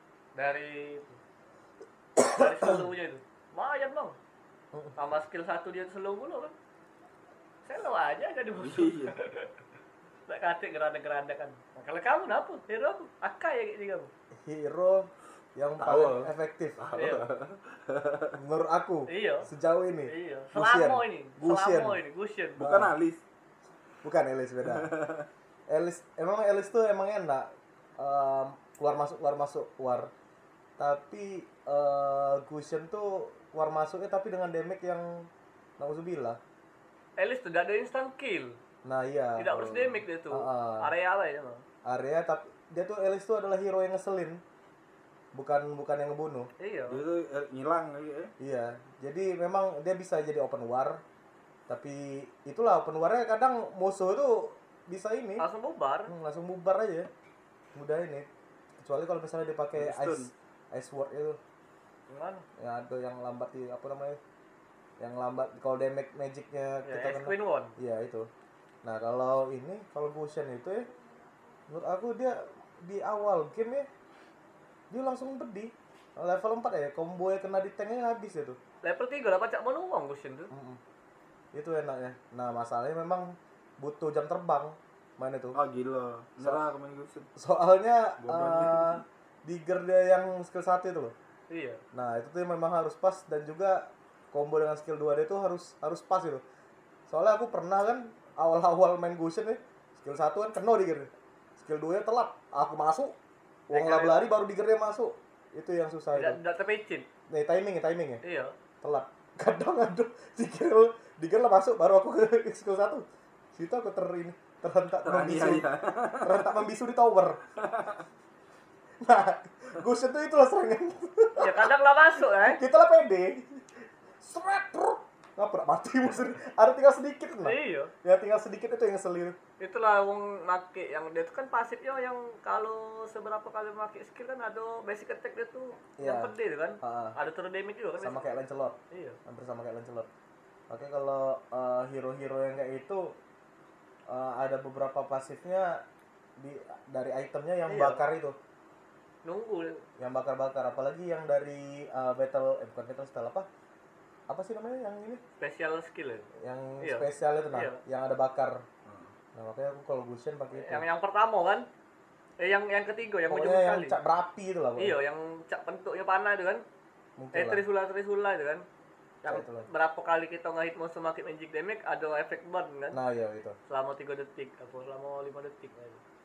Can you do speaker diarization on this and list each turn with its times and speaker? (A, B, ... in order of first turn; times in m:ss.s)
0:00.4-0:01.2 A
0:02.2-0:02.8 B
0:02.2-0:04.2 A
0:05.0-0:06.5 A
0:07.6-0:09.5 A
0:08.6-0:09.2 C
0:10.3-0:14.1 A
0:14.4-0:16.8 B
0:15.8-0:18.4 C
0:16.9-0:17.2 A
0:18.4-0:22.0 B
0:19.1-0:19.5 A
0:20.1-0:22.6 A
0:22.6-0:23.2 C
0:22.6-0:22.9 B
0:24.0-0:24.9 B
0:24.6-0:25.3 C
0:25.7-0:30.1 B
0:30.8-0:36.4 B
0:37.2-0:38.6 A
0:38.8-0:40.9 B
0:39.4-0:41.6 A
0:41.8-0:44.4 B
0:45.3-0:46.5 B
0:46.6-0:47.0 A
0:46.9-0:48.3 C
0:48.4-0:51.0 B
0:51.7-0:55.4 B
0:55.4-0:56.1 A
0:56.1-0:57.1 B
0:57.7-0:58.3 B
0:58.8-1:01.4 B
0:59.8-1:00.3 C
1:02.1-1:02.4 A
1:02.6-1:04.2 B
1:05.0-1:08.3 B
1:06.8-1:07.7 A
1:08.8-1:10.8 B
1:11.7-1:13.9 B
1:14.9-1:18.6 B
1:18.8-1:20.5 A
1:20.5-1:20.8 B
1:21.5-1:23.2 B
1:23.8-1:25.6 B
1:25.5-1:27.3 C
1:27.4-1:31.1 B
1:28.2-1:29.0 C
1:31.5-1:31.8 A
1:31.9-1:36.4 B
1:37.1-1:43.2 B
1:43.7-1:46.4 B
1:43.7-1:44.3 A
1:46.1-1:47.0 A
1:47.3-1:48.2 B
1:48.2-1:48.5 A
1:48.8-1:55.7 B
1:55.0-1:56.5 C
1:56.2-1:57.4 B
1:57.6-1:58.0 C
1:59.0-2:01.7 B
2:01.4-2:02.6 A
2:02.4-2:09.4 B
2:07.4-2:07.9 A
2:09.6-2:18.3 A
2:16.0-2:17.2 B
2:18.0-2:20.1 B
2:18.9-2:19.2 A
2:20.7-2:23.1 B
2:24.1-2:25.8 B
2:26.4-2:28.4 B
2:27.7-2:28.0 A
2:29.2-2:29.8 A
2:30.0-2:33.5 B
2:34.3-2:35.2 B
2:35.4-2:36.3 A
2:36.4-2:38.6 B
2:36.8-2:37.8 A
2:39.3-2:40.8 B
2:40.5-2:41.7 A
2:42.4-2:44.0 A
2:43.3-2:45.0 B
2:44.8-2:46.6 A
2:47.2-2:47.6 B
2:47.3-2:48.6 A
2:49.2-2:53.0 A
2:49.3-2:49.7 B
2:52.9-2:53.6 B
2:53.7-2:56.0 A